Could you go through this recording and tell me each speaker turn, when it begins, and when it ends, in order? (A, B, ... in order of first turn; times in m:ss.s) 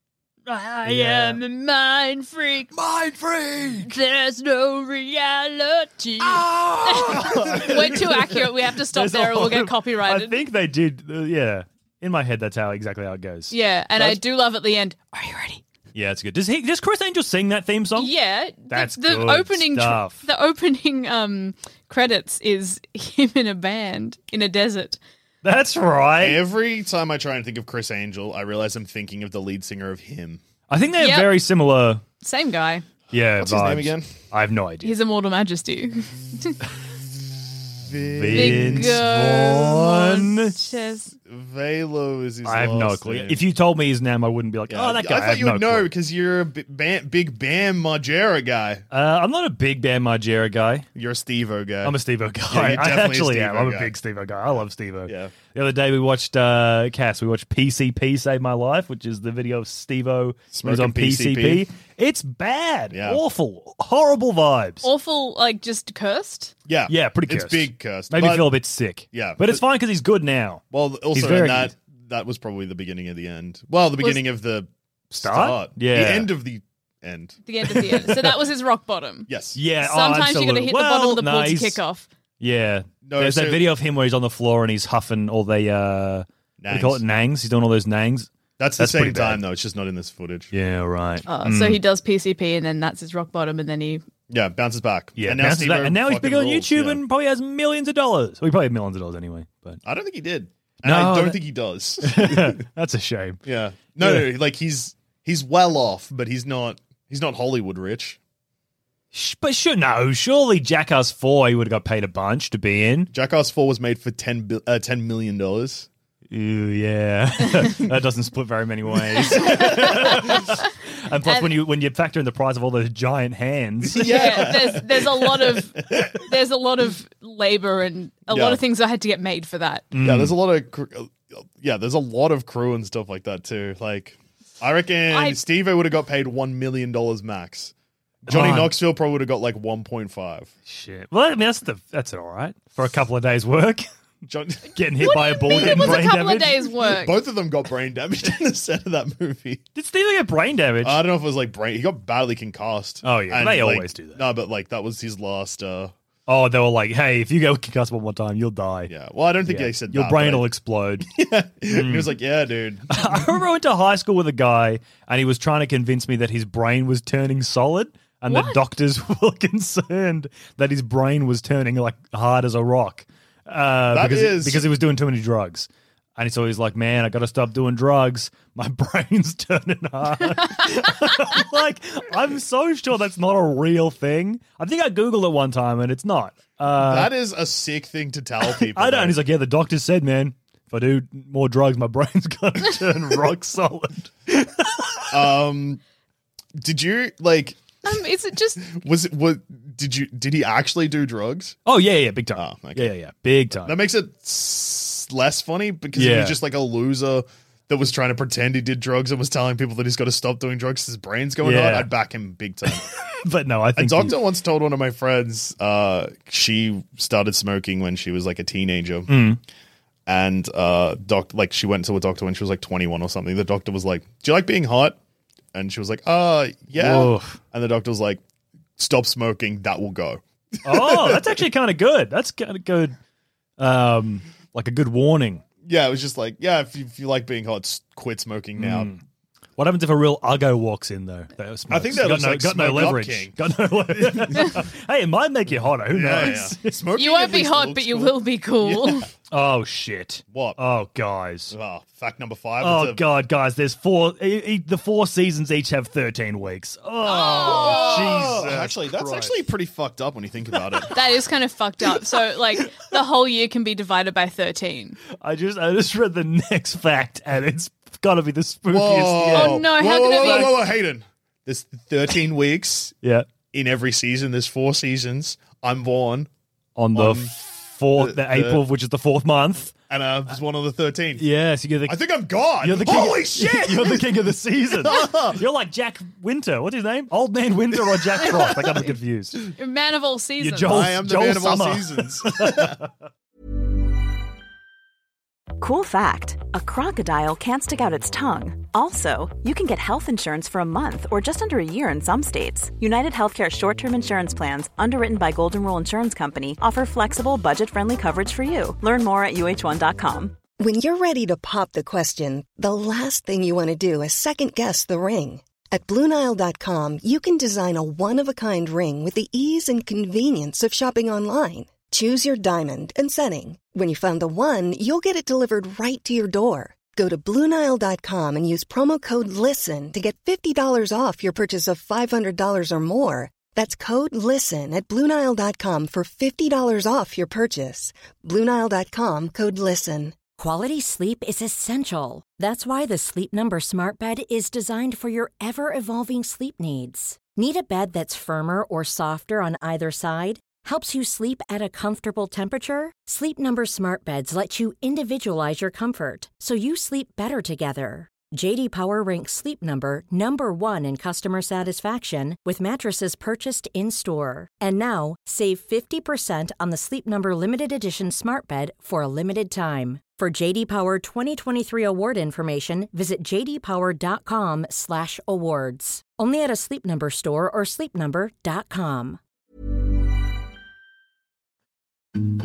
0:00.5-0:01.4 A
0:00.8-0:02.7 B
0:02.7-0:14.2 A
0:04.4-0:10.4 B
0:13.5-0:15.6 B
0:15.9-0:18.1 A
0:18.0-0:25.0 B
0:18.7-0:20.2 A
0:25.4-0:26.4 A
0:26.2-0:30.4 C
0:30.7-0:32.0 A
0:31.0-0:31.3 B
0:32.2-0:32.9 B
0:33.1-0:34.9 A
0:33.4-0:34.1 C
0:34.8-0:36.6 B
0:37.8-0:39.0 C
0:38.1-0:40.5 A
0:38.3-0:41.1 B
0:41.2-0:43.4 C
0:42.4-0:45.9 A
0:44.7-0:48.8 C
0:48.9-0:50.9 A
0:50.9-0:52.0 C
0:51.8-1:04.9 A
0:52.5-0:53.9 C
0:55.1-0:55.3 C
1:00.5-1:01.6 C
1:02.9-1:03.2 C
1:04.8-1:06.5 B
1:06.7-1:08.6 C
1:06.9-1:11.7 A
1:09.1-1:09.6 C
1:10.7-1:17.4 C
1:15.2-1:16.3 A
1:17.4-1:22.1 B
1:17.7-1:18.4 A
1:19.3-1:19.6 C
1:19.5-1:21.8 A
1:22.4-1:29.4 A
1:23.0-1:23.7 C
1:26.6-1:27.0 C
1:28.6-1:30.5 C
1:30.5-1:31.8 A
1:31.3-1:34.0 B
1:34.3-1:37.0 C
1:35.2-1:39.8 A
1:39.8-1:42.6 C
1:40.8-1:41.4 A
1:42.0-1:43.4 A
1:43.4-1:48.2 C
1:44.0-1:44.3 A
1:49.1-1:53.1 A
1:53.1-1:55.9 C
1:56.3-2:04.8 A
1:59.2-2:00.7 B
2:01.2-2:01.5 B
2:04.0-2:06.2 C
2:04.0-2:09.9 B
2:08.3-2:08.6 C
2:09.9-2:10.4 A
2:10.0-2:17.7 C
2:15.1-2:15.4 B
2:18.2-2:20.5 C
2:18.3-2:18.8 A
2:20.7-2:23.9 A
2:24.3-2:24.8 C
2:24.7-2:26.5 A
2:25.0-2:27.2 B
2:25.5-2:26.2 C
2:26.8-2:29.6 C
2:29.7-2:31.0 A
2:30.8-2:35.9 C
2:33.0-2:34.2 A
2:36.3-2:38.9 A
2:38.9-2:40.5 C
2:39.4-2:41.1 A
2:41.1-2:43.2 C
2:41.7-2:42.1 A
2:42.9-3:07.1 A
2:48.3-2:48.6 B
2:53.9-2:54.7 C
3:06.7-3:09.2 C
3:08.5-3:15.3 A
3:15.1-3:15.8 C
3:16.6-3:17.8 C
3:17.8-3:18.6 B
3:18.6-3:21.6 C
3:21.6-3:23.7 A
3:22.4-3:22.9 C
3:23.6-3:32.9 C
3:25.9-3:26.4 A
3:31.4-3:31.9 A
3:33.2-3:34.2 A
3:33.8-3:39.2 C
3:39.1-3:39.4 A
3:40.1-3:45.0 C
3:45.5-3:48.2 C
3:46.8-3:47.4 A
3:48.8-3:51.3 C
3:50.6-3:53.0 A
3:53.6-3:55.4 A
3:55.6-3:58.9 C
3:58.6-3:59.0 A
3:59.6-4:06.8 A
4:01.7-4:03.4 C
4:03.9-4:04.6 C
4:05.9-4:09.0 C
4:06.9-4:09.1 B
4:09.3-4:11.5 A
4:10.3-4:10.6 C
4:11.5-4:13.0 C
4:12.6-4:19.4 A
4:17.0-4:18.2 B
4:17.1-4:21.0 C
4:20.9-4:25.0 B
4:25.1-4:30.6 A
4:28.7-4:32.9 C
4:29.3-4:30.7 B
4:33.0-4:33.3 A
4:33.5-4:36.3 C
4:36.8-4:39.7 A
4:36.9-4:37.3 C
4:38.0-4:38.6 C
4:39.9-4:41.2 C
4:41.2-4:42.0 A
4:41.9-4:44.0 C
4:42.6-4:49.4 A
4:44.8-4:45.4 C
4:49.6-4:50.8 B
4:50.4-4:52.9 A
4:50.7-4:52.8 C
4:55.6-5:10.4 D
5:10.6-5:40.2 E
5:40.4-6:19.2 F